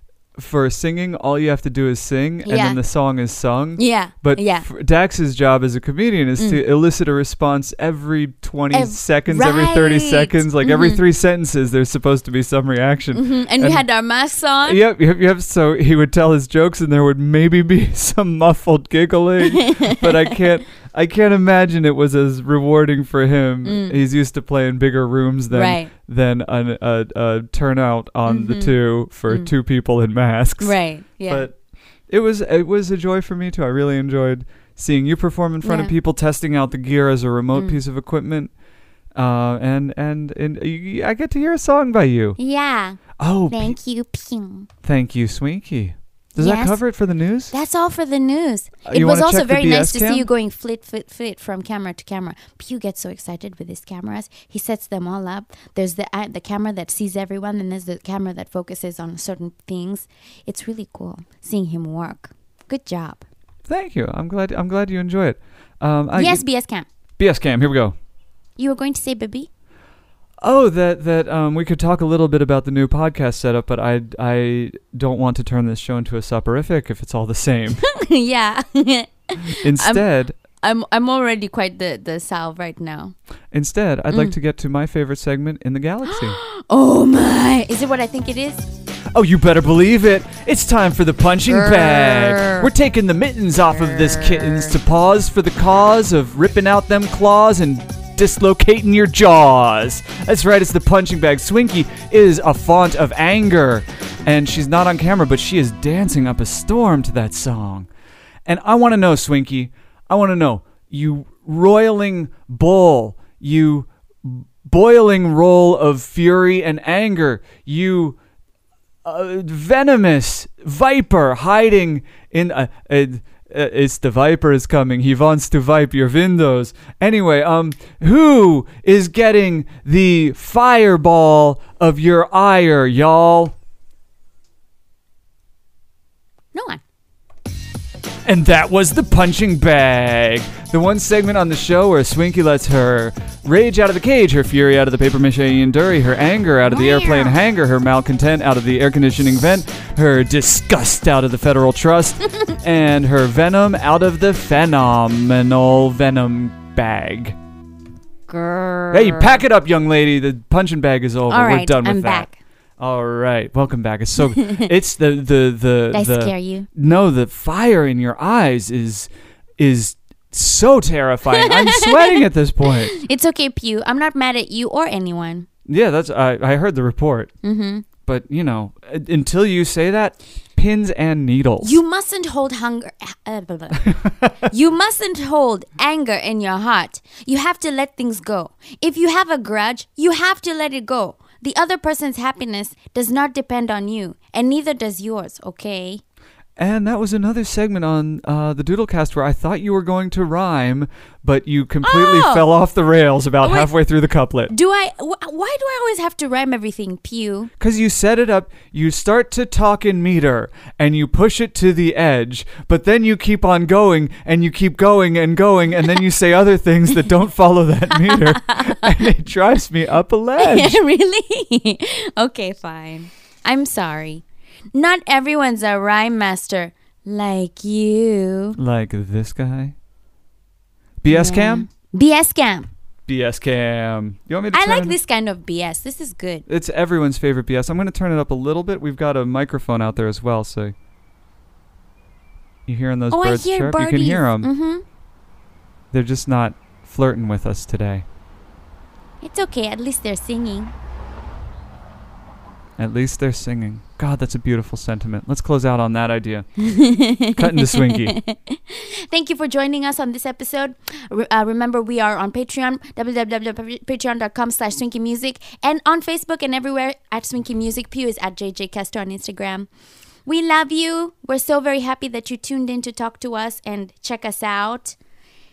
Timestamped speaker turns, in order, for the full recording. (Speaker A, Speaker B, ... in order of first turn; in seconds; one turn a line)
Speaker A: 0.4-13.8
Speaker B: 2.4-2.8
Speaker B: 3.8-4.7
Speaker B: 8.7-11.0
Speaker B: 13.1-14.8
Speaker A: 14.6-30.8
Speaker B: 19.4-20.4
Speaker B: 23.6-24.0
Speaker B: 25.5-25.9
Speaker B: 28.2-28.8
Speaker B: 30.6-31.5
Speaker A: 31.3-31.6
Speaker A: 32.1-38.5
Speaker B: 35.6-35.9
Speaker B: 37.5-37.8
Speaker A: 39.1-42.4
Speaker B: 42.4-44.7
Speaker A: 43.2-43.8
Speaker A: 44.8-47.5
Speaker B: 46.4-46.8
Speaker B: 47.5-63.2
Speaker A: 48.9-50.3
Speaker A: 63.7-66.4
Speaker B: 66.1-66.9
Speaker A: 67.2-68.0
Speaker B: 68.6-69.5
Speaker A: 70.4-77.8
Speaker B: 77.8-80.1
Speaker A: 79.5-80.3
Speaker B: 80.6-83.1
Speaker A: 83.5-86.4
Speaker B: 86.1-88.7
Speaker A: 89.1-107.9
Speaker B: 91.5-92.7
Speaker B: 93.7-94.7
Speaker A: 108.5-118.2
Speaker A: 119.0-133.6
Speaker B: 136.5-136.8
Speaker A: 138.2-157.4
Speaker B: 146.7-147.4
Speaker B: 158.3-159.4
Speaker A: 158.9-162.3
Speaker B: 161.3-162.4
Speaker A: 162.8-172.9
Speaker B: 164.2-164.7
Speaker B: 165.9-166.7
Speaker B: 171.3-175.5
Speaker A: 175.7-177.3
Speaker B: 177.4-177.9
Speaker A: 178.0-181.8
Speaker B: 181.6-196.0
Speaker A: 183.9-184.2
Speaker A: 196.6-204.5
Speaker B: 201.8-202.5
Speaker B: 203.4-203.7
Speaker B: 204.5-207.5
Speaker A: 207.6-220.8
Speaker B: 217.9-219.0
Speaker B: 220.4-228.6
Speaker A: 228.6-229.7
Speaker A: 231.0-231.7
Speaker B: 231.1-232.7
Speaker A: 233.1-234.9
Speaker B: 234.5-236.5
Speaker A: 236.5-240.7
Speaker A: 242.7-244.5
Speaker B: 243.1-244.8
Speaker A: 245.9-248.1
Speaker B: 249.2-250.7
Speaker A: 252.8-256.5
Speaker B: 256.6-269.7
Speaker A: 257.4-258.2
Speaker B: 270.2-274.9